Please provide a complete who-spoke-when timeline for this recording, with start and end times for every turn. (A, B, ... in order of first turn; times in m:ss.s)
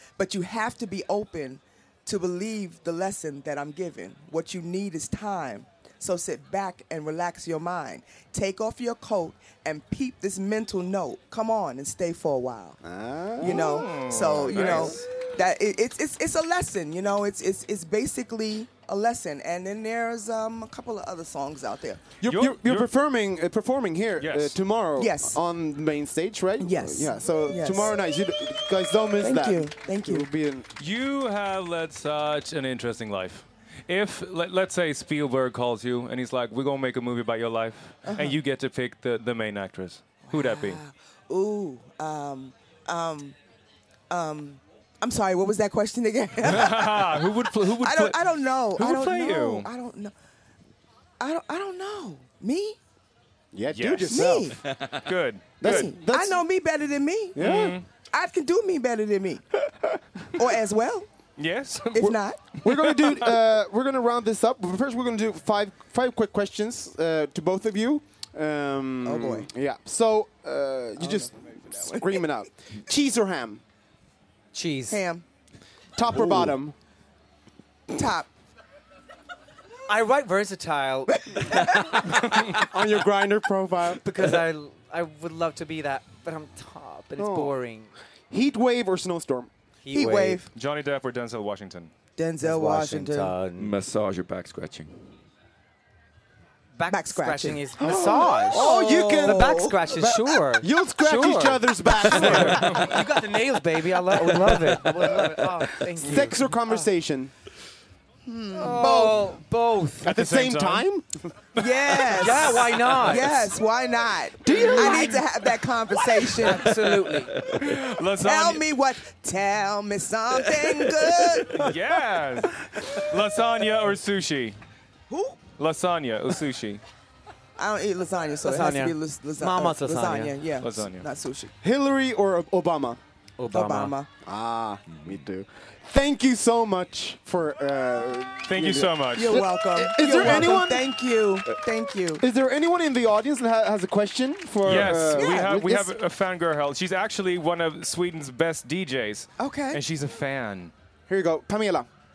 0:00.2-0:12.8 A
0:12.8-0:13.7 B
0:13.4-0:22.0 A
0:13.4-0:15.1 C
0:14.5-0:14.9 B
0:22.2-0:30.7 B
0:22.3-0:22.9 C
0:24.2-0:24.6 C
0:25.0-0:25.4 A
0:26.6-0:27.9 A
0:29.2-0:30.3 A
0:30.8-0:40.8 C
0:38.0-0:38.3 A
0:40.3-0:43.4 A
0:44.1-0:50.1 A
0:46.4-0:49.7 C
0:51.2-0:52.8 A
0:53.5-0:54.6 B
0:53.7-0:54.4 C
0:54.1-0:54.6 A
0:54.6-0:55.0 D
0:55.0-0:55.9 C
0:55.6-0:56.4 B
0:55.6-0:57.5 A
0:57.3-0:57.8 B
0:57.4-0:57.8 C
0:58.1-0:59.4 A
1:00.4-1:01.1 A
1:01.4-1:03.3 C
1:01.9-1:02.5 A
1:02.6-1:13.6 B
1:09.0-1:09.5 A
1:11.0-1:12.2 A
1:14.5-1:15.0 E
1:14.9-1:15.2 A
1:16.0-1:16.8 B
1:16.1-1:16.5 A
1:17.9-1:18.3 A
1:19.9-1:21.7 E
1:21.3-1:22.0 A
1:22.5-1:24.0 B
1:24.0-1:27.9 E
1:27.2-1:27.5 B
1:28.3-1:29.5 B
1:29.8-1:30.4 E
1:29.9-1:30.5 A
1:30.5-1:31.9 C
1:32.2-1:33.3 A
1:32.4-1:33.7 E
1:33.6-1:35.2 D
1:36.8-1:46.9 E
1:36.9-1:37.6 A
1:37.8-1:43.1 B
1:38.5-1:40.2 A
1:44.2-1:47.3 B
1:48.2-1:49.3 A
1:48.6-1:50.1 E
1:50.0-1:51.6 B
1:50.0-1:50.8 C
1:51.6-1:56.8 A
1:52.1-1:53.5 E
1:54.4-1:55.3 B
1:54.5-1:55.2 E
1:56.4-1:57.3 E
1:57.3-1:57.7 D
1:57.6-1:58.7 C
1:58.2-2:01.7 A
2:01.5-2:04.6 C
2:05.1-2:05.4 A
2:05.6-2:06.8 C
2:07.6-2:11.5 A
2:08.4-2:10.3 E
2:10.6-2:11.1 C
2:11.6-2:13.0 B
2:13.4-2:13.9 E
2:13.5-2:14.1 A
2:14.2-2:20.9 B
2:18.5-2:19.4 C
2:19.1-2:22.2 A
2:22.2-2:25.9 B
2:24.6-2:30.7 C
2:24.7-2:25.5 A
2:29.4-2:29.8 A
2:31.1-2:31.9 B